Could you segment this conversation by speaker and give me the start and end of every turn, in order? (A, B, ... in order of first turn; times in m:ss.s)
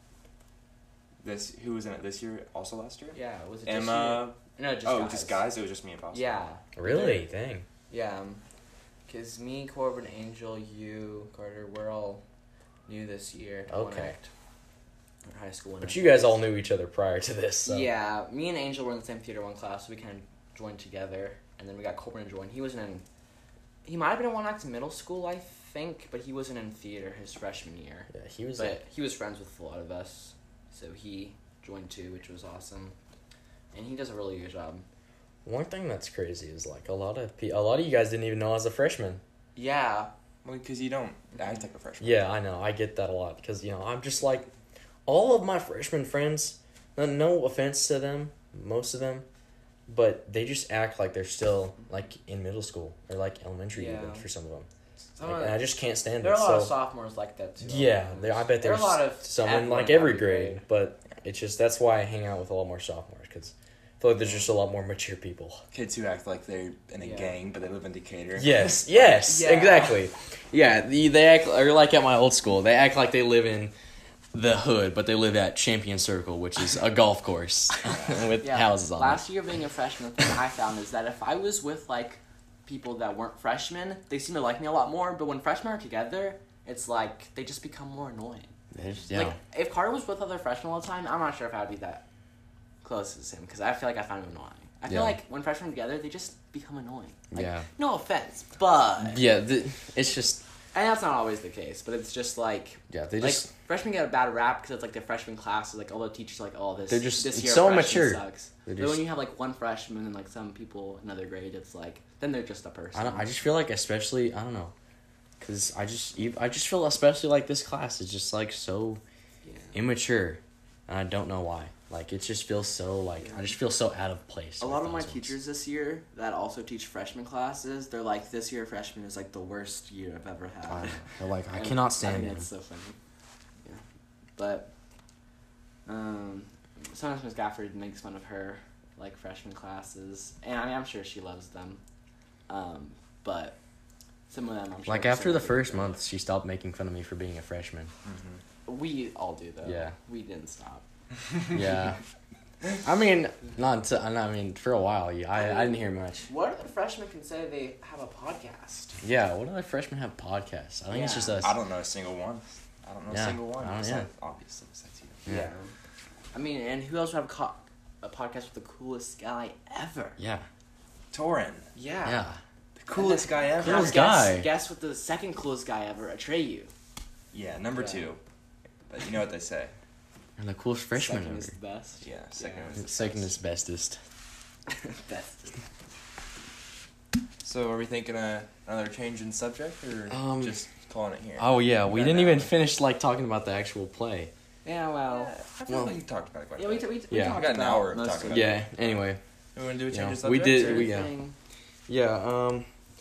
0:01.2-0:06.4 A
0:03.1-0:05.4 B
0:06.1-0:07.2 B
0:06.8-0:07.6 C
0:07.9-0:08.4 B
0:09.1-0:12.2 B
0:12.9-0:14.3 B
0:13.7-0:14.2 C
0:15.2-0:16.4 B
0:15.8-0:17.9 C
0:17.6-0:23.0 B
0:23.8-0:32.9 B
0:28.1-0:28.8 C
0:33.7-0:34.8 B
0:35.4-0:39.2 C
0:39.5-0:40.1 B
0:40.4-0:42.2 A
0:42.0-0:44.5 C
0:45.0-0:49.2 C
0:49.9-0:54.7 C
0:53.7-0:54.2 B
0:55.2-1:00.6 B
0:55.2-0:56.7 C
0:57.6-1:05.6 C
1:05.7-1:09.3 A
1:07.0-1:07.4 B
1:08.4-1:13.7 C
1:09.2-1:10.0 B
1:14.3-1:19.3 C
1:17.8-1:32.0 B
1:28.7-1:29.4 C
1:32.8-1:39.2 B
1:34.9-1:35.2 C
1:37.3-1:37.7 C
1:39.0-1:40.4 C
1:40.7-1:53.3 B
1:42.9-1:43.5 C
1:46.9-1:49.0 C
1:52.9-1:54.7 C
1:55.4-1:59.0 C
1:59.4-1:59.7 B
1:59.7-2:05.3 C
2:03.2-2:03.5 B
2:04.6-2:13.0 B
2:10.6-2:12.5 C
2:14.4-2:14.7 B
2:15.8-2:21.8 B
2:22.5-2:23.6 B
2:24.3-2:26.0 B
2:24.9-2:27.9 C
2:28.0-2:28.4 A
2:28.6-2:30.8 B
2:29.6-2:29.9 C
2:31.5-2:32.0 C
2:32.8-2:36.3 C
2:35.3-2:39.0 B
2:39.0-2:41.6 C
2:40.9-2:41.4 B
2:41.4-2:45.2 A
2:43.1-2:44.1 C
2:45.2-2:45.7 B
2:46.3-2:50.2 B
2:50.2-2:50.5 C
2:51.1-2:51.7 A
2:51.7-2:52.3 B
2:52.0-2:52.4 C
2:52.8-2:54.0 A
2:52.9-2:56.7 B
2:53.6-2:54.5 C
2:57.3-2:58.2 A
2:57.7-2:58.1 B
2:58.9-2:59.7 A
3:00.4-3:01.5 C
3:00.9-3:03.3 B
3:02.0-3:03.0 A
3:02.8-3:04.0 C
3:04.7-3:05.6 B
3:07.4-3:12.5 A
3:10.1-3:10.6 C
3:11.4-3:14.3 C
3:14.6-3:16.0 B
3:15.1-3:18.8 A
3:15.7-3:15.9 C
3:16.6-3:18.5 B
3:17.1-3:17.4 C
3:18.3-3:19.2 C
3:19.5-3:21.0 A
3:19.9-3:21.1 C
3:20.5-3:21.4 B
3:21.9-3:22.7 C